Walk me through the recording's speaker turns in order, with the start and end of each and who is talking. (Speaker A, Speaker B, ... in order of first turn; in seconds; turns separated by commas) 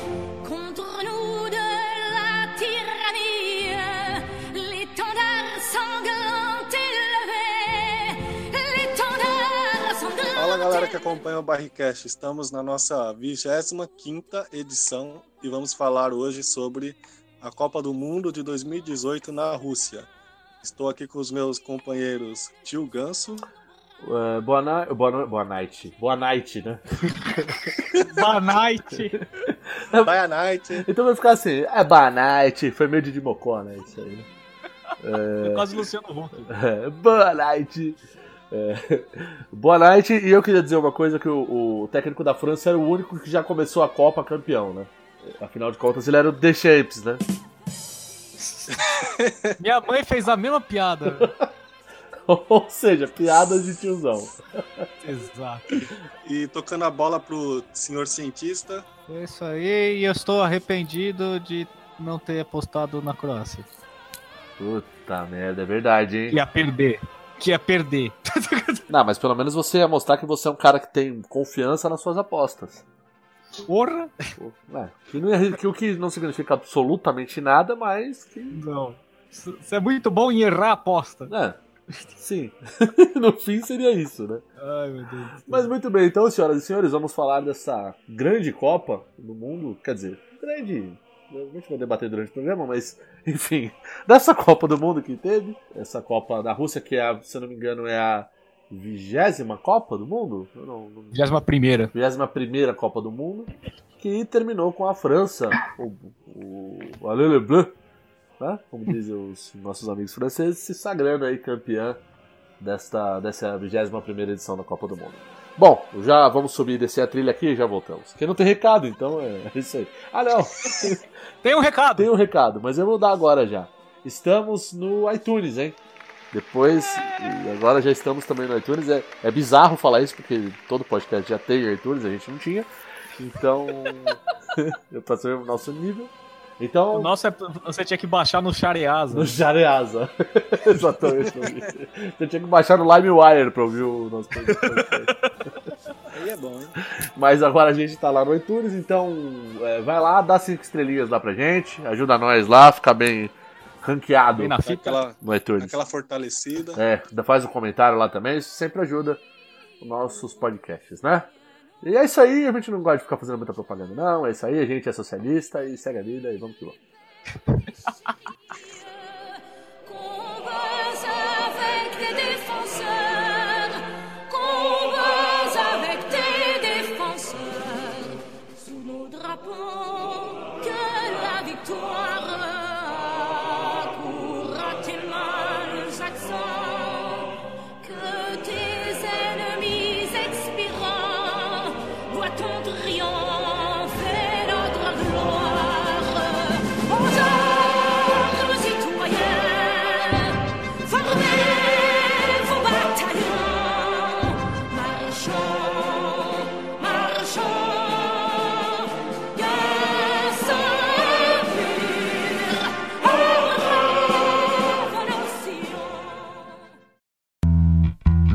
Speaker A: 0.4-11.2, Speaker B: 10.4-20.1, Speaker B: 20.6-23.5, Speaker C: 24.0-27.7, Speaker D: 27.9-29.2, Speaker C: 29.4-30.2, Speaker B: 30.0-30.9, Speaker C: 30.7-34.3, Speaker C: 35.0-35.7, Speaker D: 35.4-36.5, Speaker C: 36.5-47.2, Speaker B: 49.0-49.5, Speaker D: 49.6-51.3, Speaker C: 51.1-51.5, Speaker C: 52.2-54.9, Speaker D: 55.0-55.6, Speaker B: 56.2-58.9, Speaker D: 59.1-63.7, Speaker C: 64.6-66.4, Speaker D: 66.3-68.8, Speaker C: 68.9-72.8, Speaker D: 73.6-74.3, Speaker C: 74.4-78.6, Speaker D: 78.5-81.3, Speaker C: 81.3-84.4, Speaker D: 84.6-85.7, Speaker C: 85.4-101.2, Speaker D: 101.1-101.9, Speaker C: 101.9-107.7, Speaker C: 108.4-112.0, Speaker C: 112.6-121.0, Speaker D: 121.4-122.1, Speaker C: 122.0-125.8, Speaker C: 126.3-137.1, Speaker D: 136.9-139.4, Speaker C: 139.1-145.1, Speaker D: 144.4-144.8, Speaker B: 146.1-146.8, Speaker C: 146.9-154.6, Speaker D: 154.4-155.0, Speaker B: 154.6-156.8, Speaker C: 155.2-155.8, Speaker C: 156.7-159.2, Speaker C: 159.8-161.3, Speaker C: 161.8-166.8, Speaker A: 168.9-169.3, Speaker A: 169.8-216.4